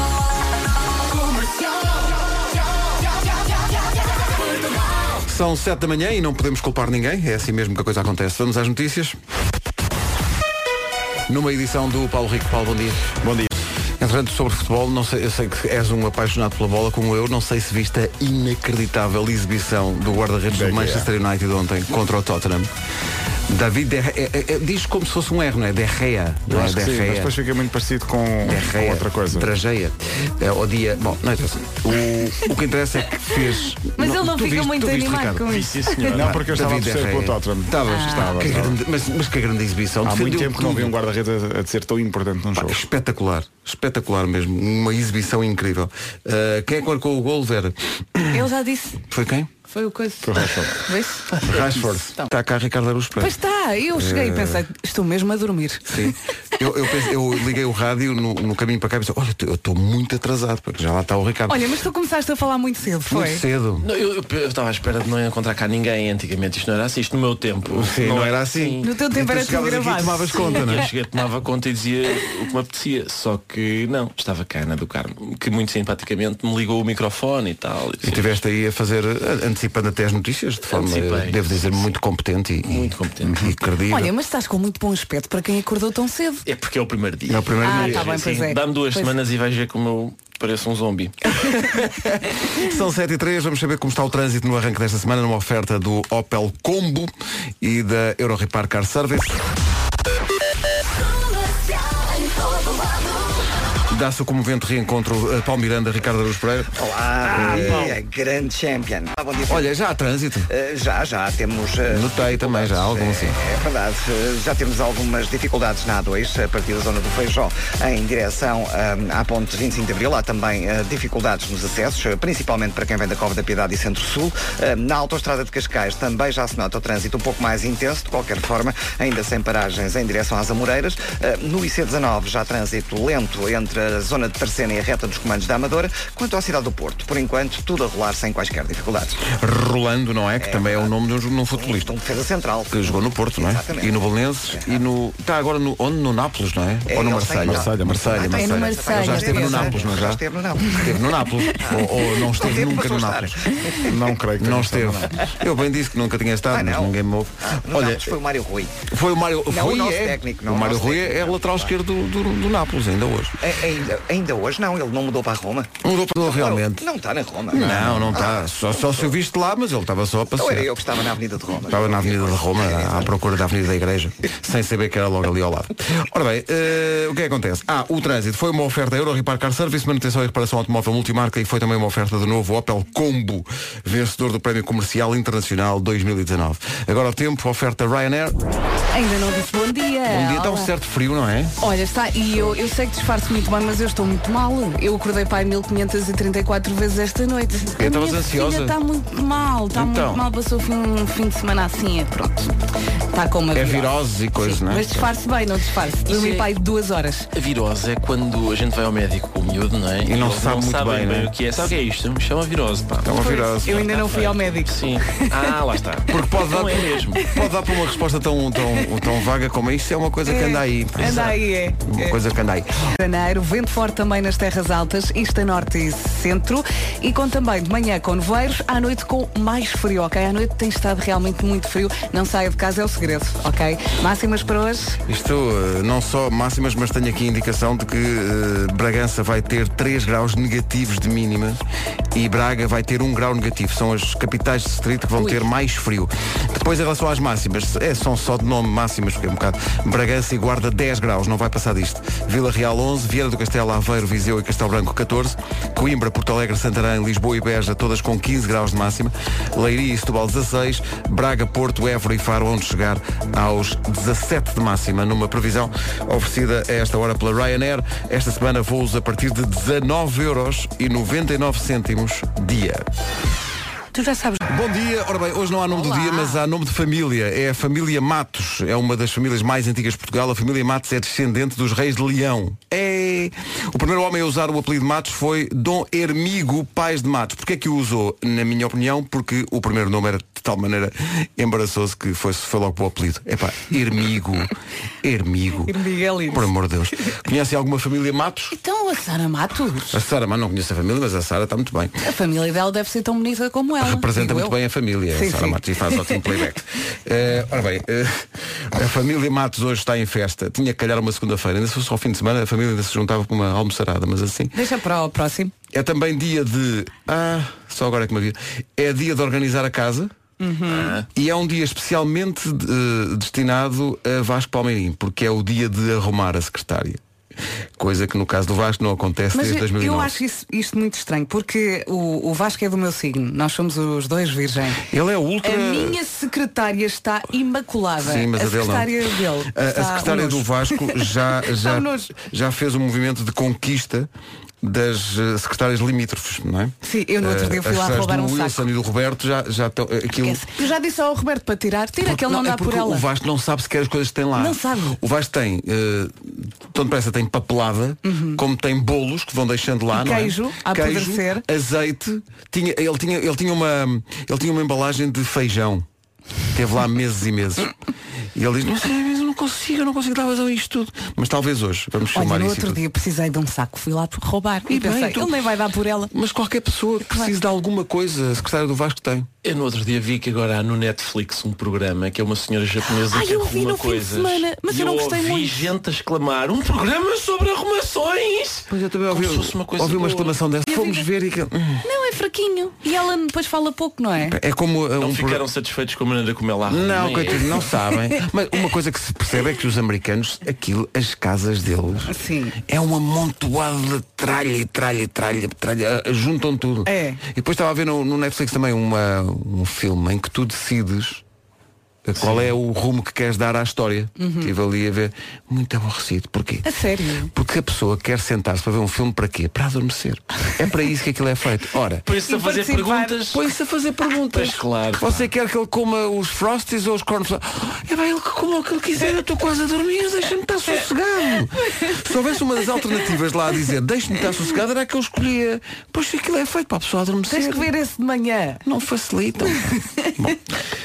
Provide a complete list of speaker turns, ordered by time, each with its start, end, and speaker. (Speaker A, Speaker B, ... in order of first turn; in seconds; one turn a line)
Speaker A: 5.2-9.2
Speaker A: 11.3-13.1
Speaker B: 13.2-13.5
Speaker A: 14.0-22.7
Speaker B: 20.5-21.1
Speaker A: 23.5-27.3
Speaker B: 26.5-29.5
Speaker A: 28.4-35.5
Speaker C: 33.9-36.2
Speaker D: 35.5-36.4
Speaker B: 36.1-38.8
Speaker A: 36.1-41.0
Speaker C: 37.9-38.4
Speaker B: 40.0-42.8
Speaker A: 42.5-48.4
Speaker C: 48.3-49.0
Speaker A: 49.1-49.5
Speaker C: 49.7-51.3
Speaker B: 50.2-50.8
Speaker A: 51.4-53.3
Speaker C: 53.2-55.9
Speaker A: 53.9-54.6
Speaker A: 55.9-61.6
Speaker C: 61.5-63.4
Speaker A: 63.1-63.9
Speaker D: 63.8-68.9
Speaker A: 67.7-70.9
Speaker C: 68.8-70.7
Speaker D: 70.3-78.4
Speaker A: 78.0-84.1
Speaker D: 80.7-81.9
Speaker D: 82.7-83.4
Speaker C: 83.9-86.4
Speaker D: 86.4-91.8
Speaker A: 87.2-88.1
Speaker C: 87.6-89.1
Speaker A: 92.5-99.4
Speaker A: 103.9-106.8
Speaker E: 106.7-109.7
Speaker D: 107.2-107.9
Speaker A: 107.3-108.0
Speaker A: 109.5-110.5
Speaker E: 110.5-139.2
Speaker A: 111.9-113.3
Speaker A: 139.3-141.9
Speaker E: 140.4-140.9
Speaker E: 141.6-144.0
Speaker A: 142.7-150.2
Speaker E: 144.5-144.8
Speaker E: 146.9-151.1
Speaker B: 147.4-148.2
Speaker C: 148.2-149.8
Speaker A: 150.7-153.4
Speaker E: 151.6-153.9
Speaker B: 153.8-155.1
Speaker A: 154.4-158.1
Speaker E: 156.5-158.7
Speaker A: 158.9-163.4
Speaker E: 159.5-161.7
Speaker E: 163.4-169.1
Speaker A: 165.8-166.8
Speaker A: 167.5-170.7
Speaker E: 170.3-173.1
Speaker A: 171.7-188.3
Speaker C: 188.9-190.7
Speaker A: 190.1-191.5
Speaker C: 191.6-202.5
Speaker A: 197.8-198.8
Speaker A: 199.7-200.2
Speaker C: 203.1-207.3
Speaker A: 203.5-205.1
Speaker D: 206.1-206.5
Speaker D: 207.3-217.3
Speaker A: 210.0-211.3
Speaker A: 213.0-213.8
Speaker C: 213.1-215.5
Speaker A: 216.1-221.3
Speaker C: 217.2-217.5
Speaker C: 220.2-222.2
Speaker D: 221.0-221.4
Speaker A: 221.8-222.7
Speaker C: 223.0-235.0
Speaker A: 235.1-241.6
Speaker A: 242.1-272.8
Speaker C: 245.2-245.4
Speaker C: 273.9-274.4
Speaker A: 274.4-294.5
Speaker C: 275.7-276.4
Speaker A: 295.0-295.8
Speaker C: 295.6-296.5
Speaker A: 296.3-298.5
Speaker C: 298.5-299.9
Speaker A: 299.9-301.9
Speaker C: 302.0-304.5
Speaker A: 303.8-314.6
Speaker C: 305.1-306.3
Speaker C: 314.5-315.5
Speaker A: 315.7-320.1
Speaker C: 320.4-321.0
Speaker D: 320.7-321.1
Speaker A: 321.1-327.0
Speaker A: 327.8-330.1
Speaker C: 329.3-334.8
Speaker A: 334.9-336.0
Speaker C: 335.4-342.1
Speaker A: 338.0-338.9
Speaker A: 339.5-344.1
Speaker A: 344.6-350.4
Speaker C: 346.8-348.6
Speaker C: 350.2-353.1
Speaker A: 352.0-365.8
Speaker C: 354.4-355.0
Speaker C: 358.0-358.4
Speaker C: 359.9-361.4
Speaker A: 366.5-367.7
Speaker A: 368.3-372.8
Speaker C: 372.1-376.1
Speaker A: 374.7-375.4
Speaker A: 376.1-379.3
Speaker C: 377.1-377.3
Speaker D: 379.4-390.4
Speaker C: 382.9-385.7
Speaker A: 388.7-391.9
Speaker C: 390.7-391.1
Speaker C: 391.8-394.4
Speaker A: 394.2-395.4
Speaker D: 395.0-397.7
Speaker A: 396.7-411.2
Speaker C: 402.1-402.6
Speaker C: 406.9-407.2
Speaker A: 412.1-416.7
Speaker D: 412.2-412.5
Speaker C: 414.2-414.5
Speaker C: 416.6-417.3
Speaker A: 417.3-422.1
Speaker D: 422.0-423.4
Speaker C: 422.3-423.2
Speaker A: 423.3-437.7
Speaker D: 424.3-425.3
Speaker C: 437.3-438.6
Speaker A: 438.6-440.5
Speaker C: 439.5-440.2